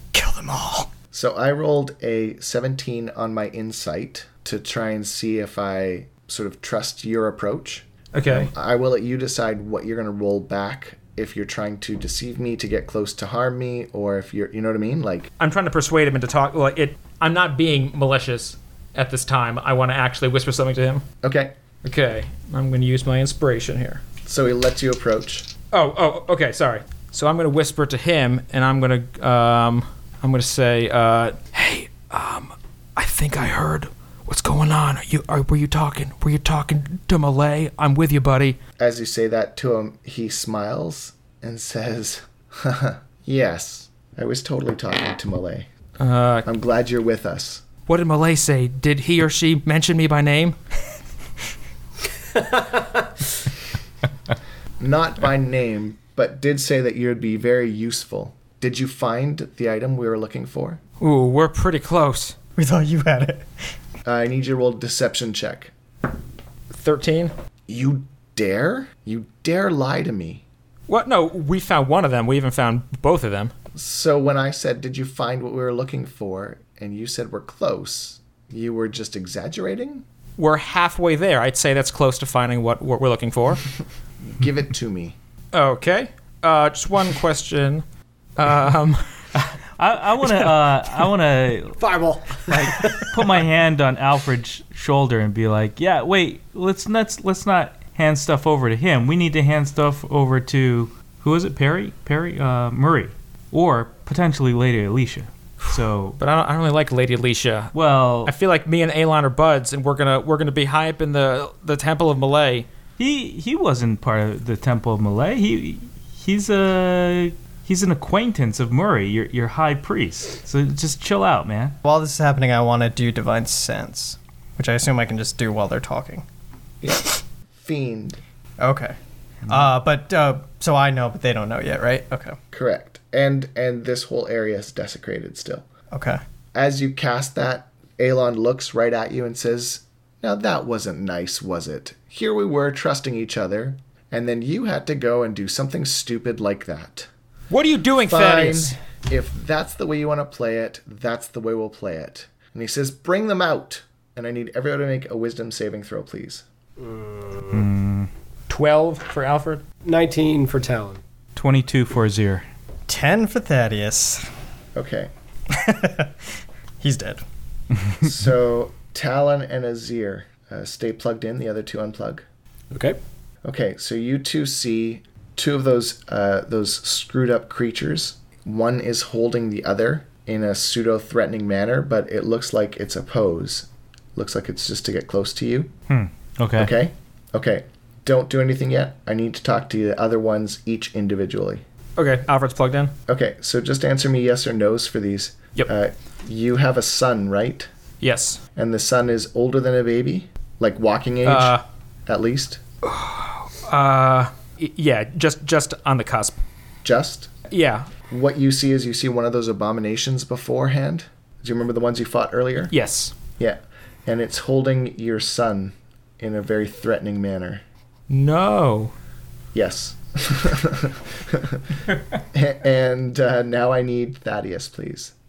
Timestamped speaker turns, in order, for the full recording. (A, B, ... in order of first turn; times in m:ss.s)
0:00.1-0:00.9 A
0:01.1-0:15.3 B
0:08.1-0:08.5 C
0:15.4-0:21.0 C
0:21.2-0:21.5 B
0:21.8-0:24.0 C
0:24.2-0:25.5 B
0:25.7-0:38.6 C
0:38.8-0:45.7 B
0:46.0-0:46.5 C
0:46.4-0:47.6 B
0:47.9-0:50.6 C
0:54.8-1:00.8 B
1:01.0-1:02.3 C
1:02.6-1:03.5 A
1:04.0-1:05.7 B
1:06.7-1:07.3 C
1:07.7-1:10.4 B
1:10.9-1:13.5 C
1:13.7-1:20.0 B
1:20.4-1:23.6 C
1:24.2-1:25.2 B
1:25.5-1:27.8 C
1:28.4-1:29.5 C
1:29.8-1:31.8 D
1:31.8-1:33.2 E
1:32.5-1:46.2 D
1:45.6-1:52.7 C
1:47.7-1:48.3 D
1:53.0-2:01.8 D
2:01.8-2:06.2 A
2:06.8-2:08.2 B
2:08.6-2:09.0 A
2:09.5-2:12.4 A
2:12.5-2:15.7 B
2:15.9-2:16.2 A
2:16.5-2:27.1 B
2:27.5-2:28.8 C
2:28.0-2:36.4 B
2:36.8-2:37.7 E
2:37.5-2:38.1 D
2:38.5-2:39.6 C
2:39.8-2:41.0 E
2:41.3-2:42.4 D
2:42.9-2:44.3 A
2:44.7-2:45.1 B
2:45.5-2:46.2 A
2:46.8-2:47.2 A
2:48.0-2:52.2 B
2:52.7-2:53.0 E
2:53.4-3:05.7 B
3:05.9-3:06.7 D
3:06.6-3:11.6 B
3:12.0-3:12.9 C
3:13.1-3:17.7 B
3:18.0-3:18.4 C
3:18.6-3:22.6 B
3:21.2-3:21.6 C
3:22.8-3:26.4 C
3:26.8-3:27.3 B
3:27.5-3:27.9 C
3:28.1-3:32.7 B
3:32.7-3:33.1 C
3:33.4-3:37.6 B
3:38.1-3:38.9 C
3:39.5-3:45.1 B